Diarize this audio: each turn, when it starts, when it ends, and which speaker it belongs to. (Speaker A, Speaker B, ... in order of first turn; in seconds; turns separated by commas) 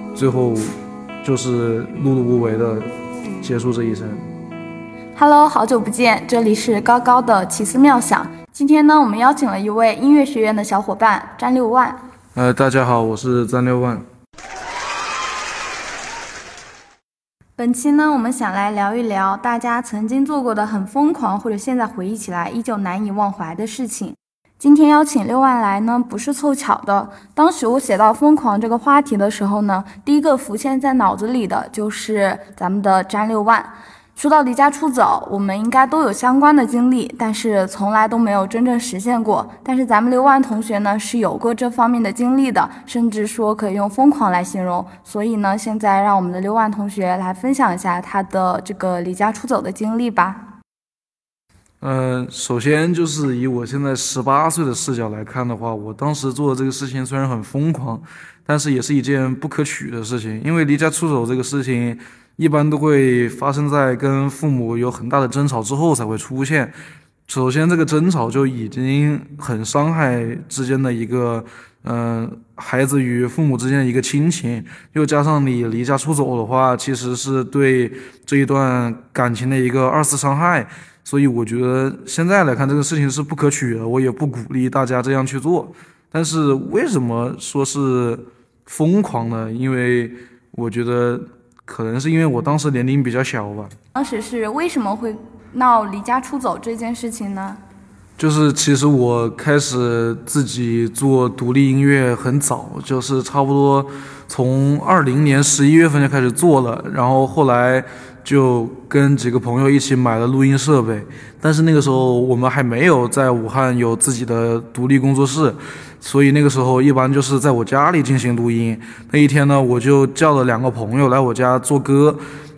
Speaker A: 0.1-2.9, Speaker A: 3.4-4.2, Speaker B: 5.2-12.0, Speaker A: 12.3-14.1, Speaker B: 17.6-50.5, Speaker A: 51.8-66.7, Speaker A: 67.3-93.7, Speaker B: 93.9-97.6, Speaker A: 98.2-122.2